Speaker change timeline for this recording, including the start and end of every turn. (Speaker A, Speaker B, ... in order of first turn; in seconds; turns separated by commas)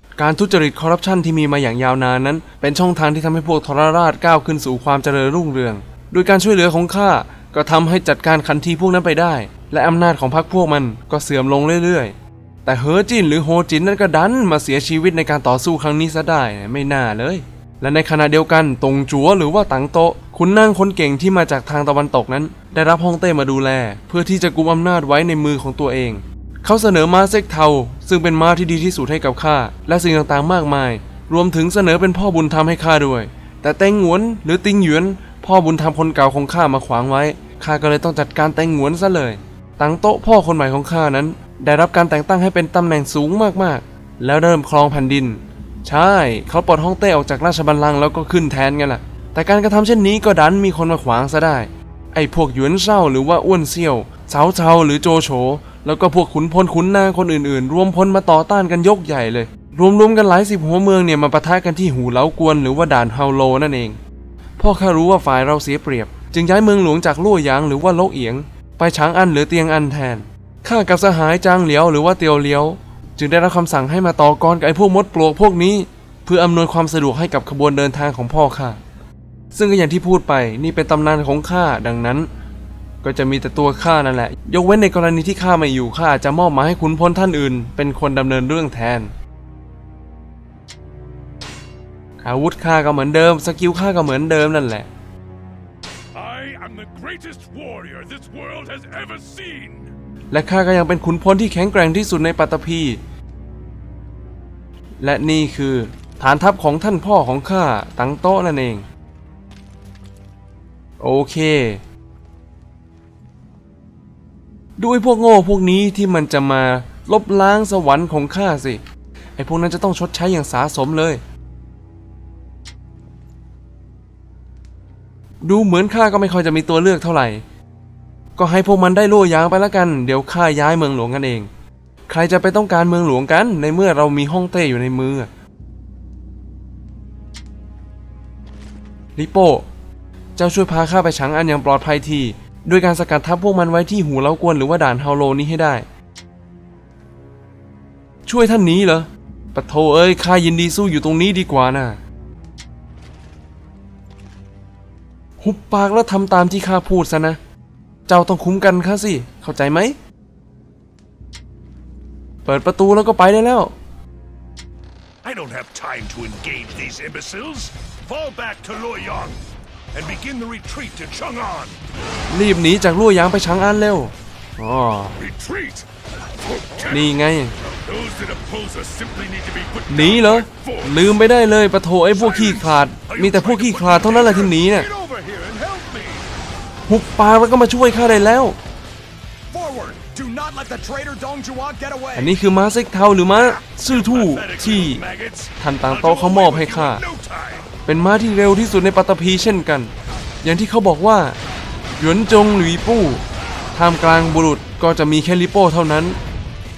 Speaker A: 0.2-64.0, Speaker A: 64.6-78.8, Speaker A: 79.5-82.3, Speaker A: 83.0-89.1, Speaker A: 92.2-94.9, Speaker B: 96.1-99.9, Speaker A: 100.3-103.0, Speaker A: 105.0-108.8, Speaker A: 111.0-111.8, Speaker A: 114.8-118.8, Speaker A: 119.4-121.2, Speaker A: 125.4-127.4, Speaker A: 128.4-131.5, Speaker A: 132.1-135.3, Speaker A: 139.2-139.7, Speaker A: 140.4-145.8, Speaker A: 148.3-152.0, Speaker A: 155.4-157.4, Speaker A: 158.1-160.0, Speaker A: 162.4-163.7, Speaker B: 165.2-169.4, Speaker B: 169.9-171.8, Speaker A: 172.3-175.2, Speaker B: 175.2-175.9, Speaker B: 176.4-177.1, Speaker A: 176.9-177.5, Speaker B: 177.6-181.0, Speaker A: 179.9-184.9, Speaker B: 182.1-186.2, Speaker A: 186.9-188.6, Speaker C: 189.5-192.3, Speaker A: 192.2-195.0, Speaker B: 193.3-197.7, Speaker A: 195.6-197.0, Speaker A: 197.9-199.9, Speaker A: 200.4-201.4, Speaker A: 202.0-203.2, Speaker A: 203.7-206.2